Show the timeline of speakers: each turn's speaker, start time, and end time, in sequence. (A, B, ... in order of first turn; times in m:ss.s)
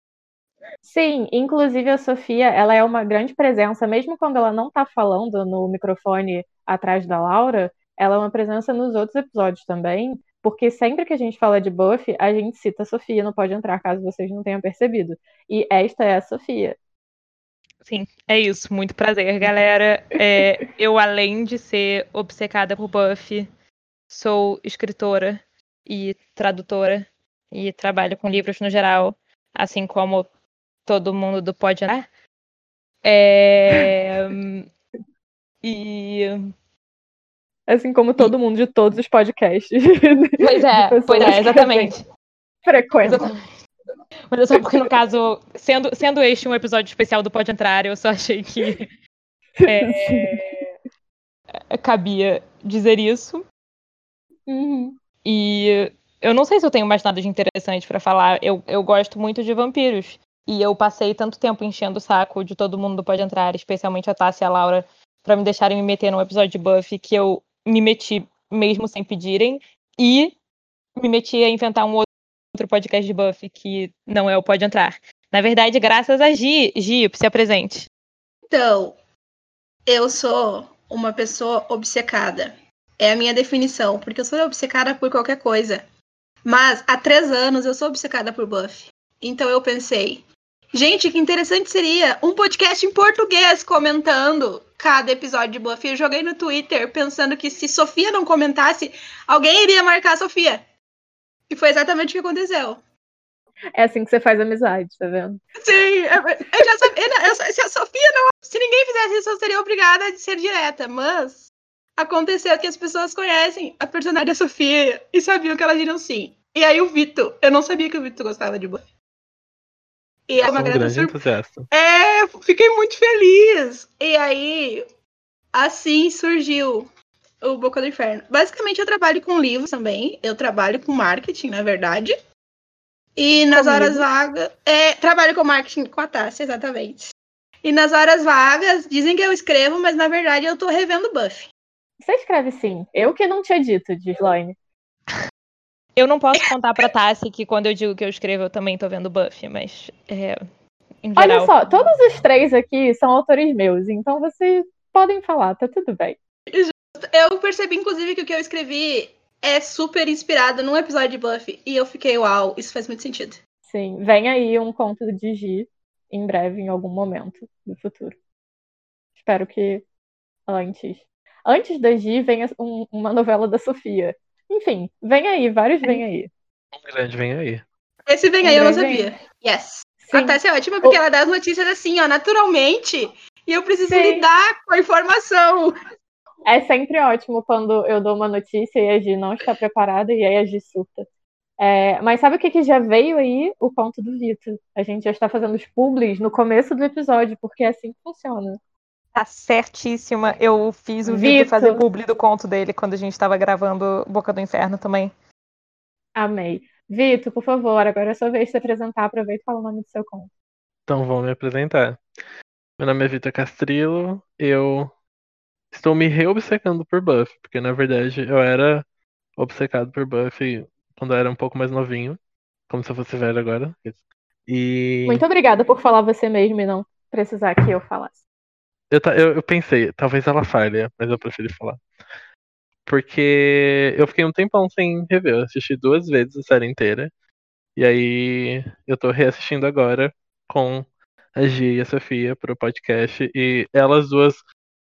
0:00.8-0:16.8 A
0:17.8-0:23.5 B
0:24.1-0:30.3 B
0:30.8-0:32.0 B
0:33.0-0:34.7 B
0:35.6-0:36.5 B
0:37.7-0:41.9 A
0:40.4-0:42.0 B
0:42.6-0:43.3 A
0:43.0-0:43.4 B
0:44.3-0:48.9 B
0:49.6-0:50.4 A
0:49.6-0:50.6 B
0:51.7-0:53.4 B
0:54.5-0:55.0 A
0:55.2-1:10.3 B
1:11.0-1:17.9 B
1:18.5-1:19.0 C
1:19.8-1:25.8 C
1:26.4-1:40.6 C
1:41.5-1:42.8 C
1:43.7-1:45.4 A
1:45.6-1:58.8 C
2:00.3-2:01.2 C
2:00.4-2:01.7 D
2:01.7-2:04.8 C
2:05.5-2:06.9 C
2:07.4-2:12.1 C
2:13.2-2:21.5 C
2:13.5-2:14.0 A
2:22.0-2:24.5 A
2:26.0-2:30.4 B
2:31.0-2:31.5 B
2:31.2-2:36.2 A
2:36.5-2:43.4 C
2:43.7-2:48.2 A
2:49.2-2:49.8 A
2:50.5-2:56.3 A
2:56.7-2:57.6 D
2:58.1-3:05.7 C
2:58.4-2:59.1 A
3:00.0-3:01.0 A
3:03.8-3:04.2 A
3:06.4-3:11.0 A
3:11.6-3:18.6 A
3:19.1-3:25.1 B
3:21.0-3:21.8 A
3:26.1-3:30.3 A
3:30.9-3:32.0 D
3:32.8-3:34.9 D
3:35.7-3:38.8 D
3:39.4-3:42.2 D
3:42.7-3:45.2 D
3:45.0-3:48.2 A
3:48.9-3:51.8 D
3:52.8-3:57.1 D
3:57.8-4:04.4 D